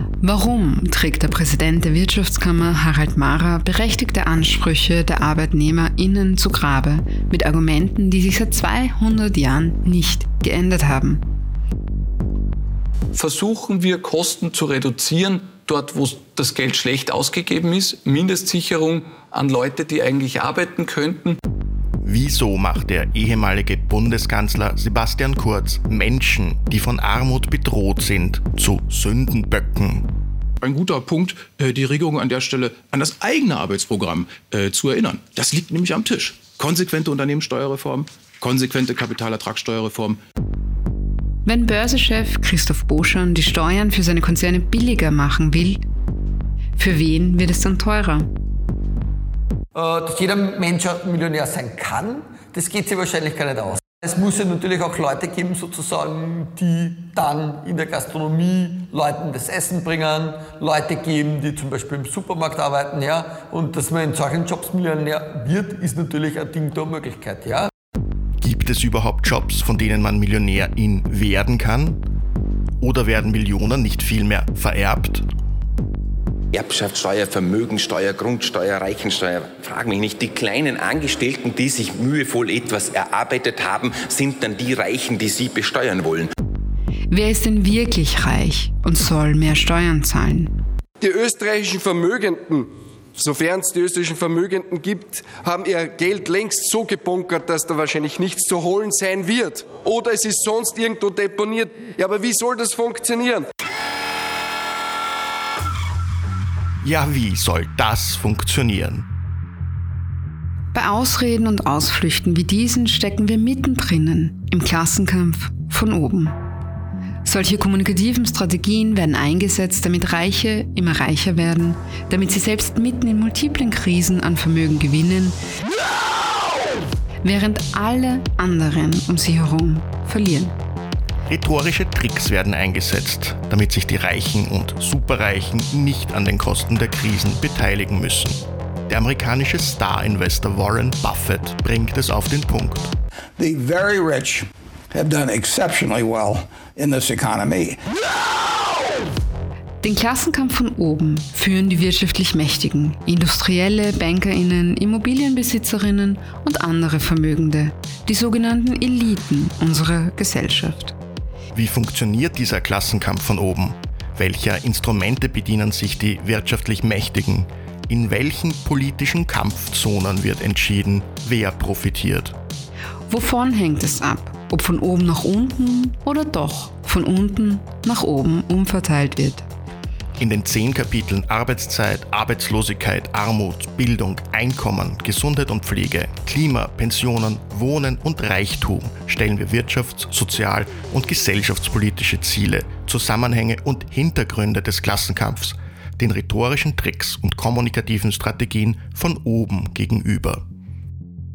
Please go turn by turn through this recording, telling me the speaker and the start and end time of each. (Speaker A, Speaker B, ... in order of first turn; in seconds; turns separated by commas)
Speaker A: 0.2-11.2, Speaker B: 13.2-21.4, Speaker C: 22.0-30.1, Speaker D: 30.6-40.2, Speaker A: 41.5-45.8, Speaker A: 46.8-48.3, Speaker E: 49.7-67.7, Speaker C: 68.4-72.0, Speaker C: 72.8-75.3, Speaker F: 76.5-86.3, Speaker A: 87.1-90.6, Speaker G: 91.0-103.5, Speaker C: 106.8-109.1, Speaker A: 110.7-116.4, Speaker A: 117.2-125.4, Speaker A: 127.2-130.6, Speaker C: 131.3-142.9, Speaker H: 143.4-147.8, Speaker A: 149.8-160.9, Speaker C: 161.5-172.4, Speaker A: 173.1-179.5, Speaker C: 180.2-200.4